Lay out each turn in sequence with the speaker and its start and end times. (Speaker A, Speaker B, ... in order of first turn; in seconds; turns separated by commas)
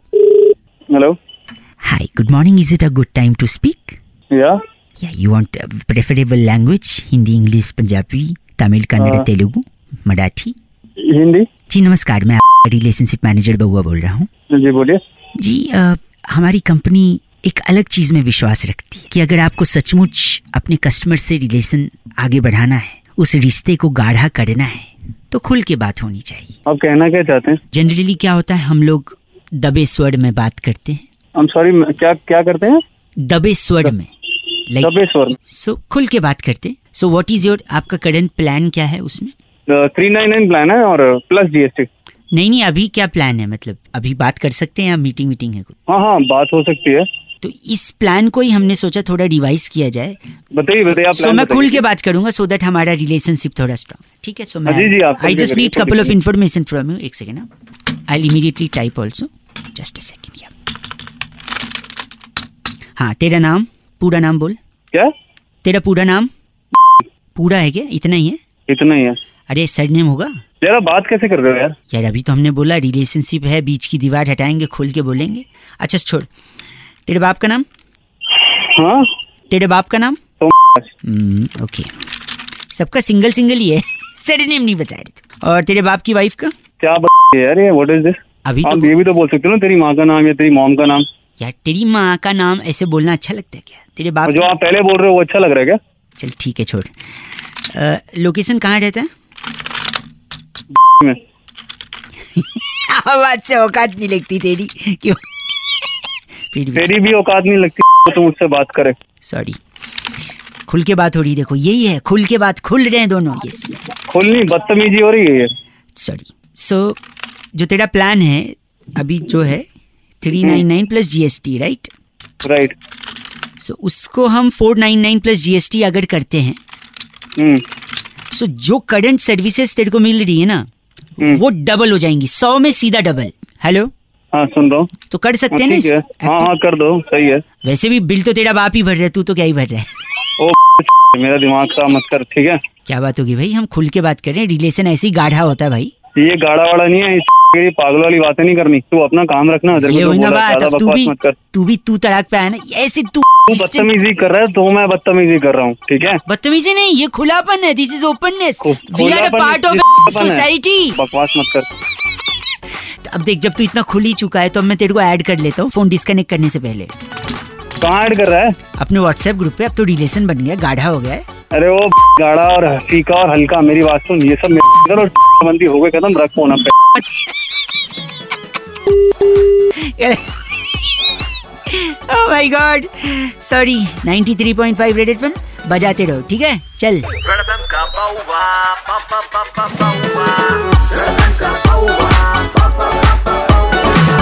Speaker A: 0.9-1.2, Speaker B: 1.8-4.0, Speaker A: 4.3-4.6, Speaker B: 5.0-10.5, Speaker A: 9.0-9.3, Speaker A: 11.0-11.5, Speaker B: 11.7-14.3, Speaker A: 14.5-15.0, Speaker B: 15.4-26.5, Speaker A: 26.6-27.6, Speaker B: 27.7-31.0, Speaker A: 31.4-32.8, Speaker B: 33.2-34.1, Speaker A: 34.8-35.4, Speaker B: 35.5-39.3, Speaker A: 39.7-41.9, Speaker B: 42.3-45.7, Speaker A: 45.9-47.0, Speaker B: 47.4-50.2, Speaker A: 50.5-51.8, Speaker B: 50.9-57.5, Speaker A: 54.7-56.2, Speaker B: 58.1-60.5, Speaker B: 63.0-64.6, Speaker B: 65.6-66.3, Speaker B: 67.3-68.4, Speaker A: 68.7-69.2, Speaker B: 69.5-70.3, Speaker A: 70.6-71.7, Speaker B: 71.9-76.3, Speaker B: 77.0-77.7, Speaker A: 78.3-79.1, Speaker B: 79.5-80.2, Speaker A: 80.4-80.9, Speaker B: 81.0-81.9, Speaker B: 82.7-86.5, Speaker A: 86.8-91.0, Speaker B: 88.4-88.9, Speaker B: 91.4-94.5, Speaker A: 94.3-95.8, Speaker B: 96.2-96.9, Speaker B: 97.7-99.1, Speaker A: 100.9-101.2, Speaker B: 102.3-105.2, Speaker B: 106.5-106.9, Speaker A: 106.7-109.0, Speaker B: 109.2-109.6, Speaker B: 110.7-113.7, Speaker A: 114.1-115.5, Speaker B: 116.0-117.0, Speaker B: 117.5-119.7, Speaker B: 120.2-121.9, Speaker A: 122.4-122.7, Speaker B: 123.6-126.6, Speaker A: 127.4-127.6, Speaker B: 128.3-130.7, Speaker B: 131.2-133.9, Speaker A: 134.3-134.9, Speaker B: 135.1-136.5, Speaker A: 135.5-137.4, Speaker B: 137.6-139.9, Speaker A: 140.4-142.6, Speaker B: 142.8-145.9, Speaker A: 146.2-151.4, Speaker B: 149.8-153.9, Speaker A: 153.5-156.2, Speaker B: 156.2-161.0, Speaker A: 158.6-161.7, Speaker B: 163.0-166.9, Speaker A: 167.8-168.5, Speaker B: 168.8-171.2, Speaker A: 171.5-176.8, Speaker B: 179.7-180.4, Speaker B: 181.7-187.1, Speaker C: 187.2-190.7, Speaker A: 190.7-191.6, Speaker C: 191.3-192.9